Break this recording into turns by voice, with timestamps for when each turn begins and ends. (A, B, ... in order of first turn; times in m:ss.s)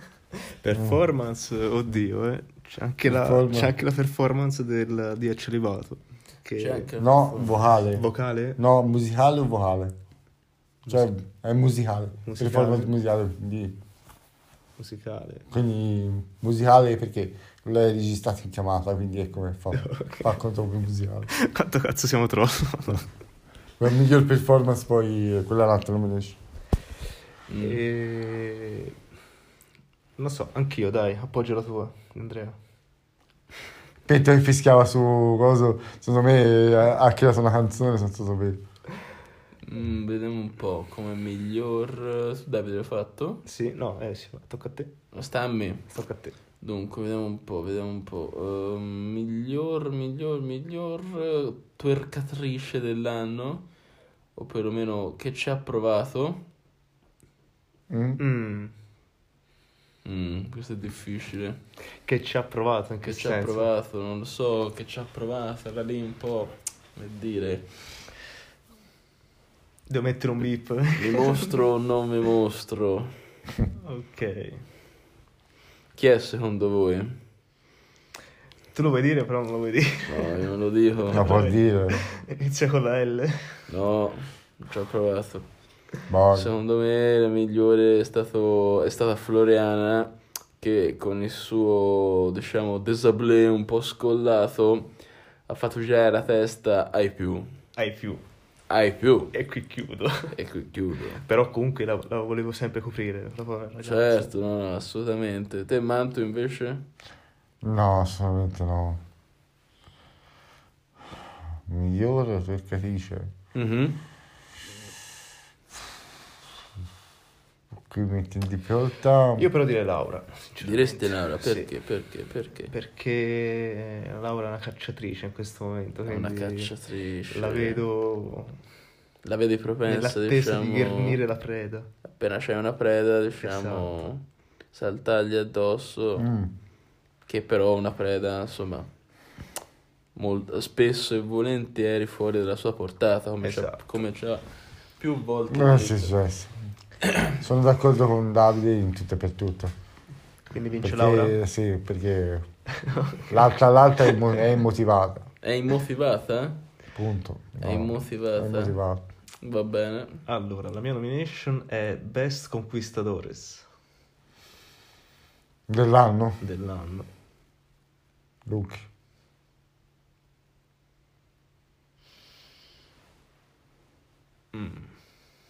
0:00.6-0:06.9 A
0:03.0-0:03.7 B
0:06.6-0:07.8 C
0:07.0-0:09.9 B
0:07.8-0:08.6 A
0:10.8-0:11.1 A
0:10.9-0:13.8 B
0:12.2-0:12.9 A
0:14.8-0:15.4 A
0:15.5-0:21.3 B
0:19.7-0:20.3 A
0:21.3-0:23.1 A
0:23.8-0:26.4 B
0:27.5-0:27.8 C
0:27.6-0:28.9 A
0:30.2-0:32.6 A
0:34.1-0:38.6 B
0:39.6-0:43.4 C
0:43.4-0:44.9 A
0:45.1-0:45.9 C
0:45.9-0:46.4 A
0:46.6-0:53.6 C
0:54.4-0:56.4 C
0:57.9-0:58.2 B
0:58.2-0:58.7 A
1:00.0-1:01.6 C
1:02.0-1:03.7 A
1:03.0-1:08.0 C
1:09.9-1:11.5 A
1:11.0-1:13.1 C
1:13.7-1:14.6 A
1:15.9-1:17.2 C
1:18.7-1:20.4 A
1:20.0-1:21.5 C
1:21.1-1:23.6 A
1:21.1-1:22.0 B
1:23.7-1:25.4 C
1:26.1-1:26.5 B
1:26.3-1:34.9 C
1:35.5-1:37.4 C
1:37.8-1:38.2 A
1:38.7-1:39.3 C
1:39.3-1:40.3 A
1:40.3-1:41.2 C
1:41.2-1:44.3 A
1:43.8-1:46.8 C
1:47.6-1:49.0 B
1:51.7-1:53.3 B
1:53.5-1:54.0 C
1:57.9-1:59.5 B
1:59.4-2:01.7 A
2:00.6-2:02.7 C
2:02.7-2:06.7 A
2:06.0-2:07.8 C
2:07.3-2:08.6 A
2:09.2-2:11.2 C
2:09.8-2:11.9 A
2:12.1-2:14.2 C
2:13.4-2:13.9 A
2:14.7-2:16.3 C
2:16.2-2:16.5 B
2:17.3-2:18.9 C
2:20.2-2:24.4 C
2:23.4-2:23.9 A
2:25.0-2:26.1 C
2:25.5-2:26.6 B
2:27.0-2:27.3 C
2:27.3-2:29.7 B
2:30.5-2:31.4 A
2:30.8-2:32.4 B
2:32.8-2:33.4 A
2:33.3-2:35.3 B
2:35.4-2:36.6 C
2:36.9-2:39.0 B
2:37.6-2:38.8 C
2:39.4-2:40.2 C
2:40.2-2:43.6 A
2:45.7-2:46.4 B
2:46.4-2:47.1 A
2:48.4-2:48.8 B
2:54.5-2:54.9 A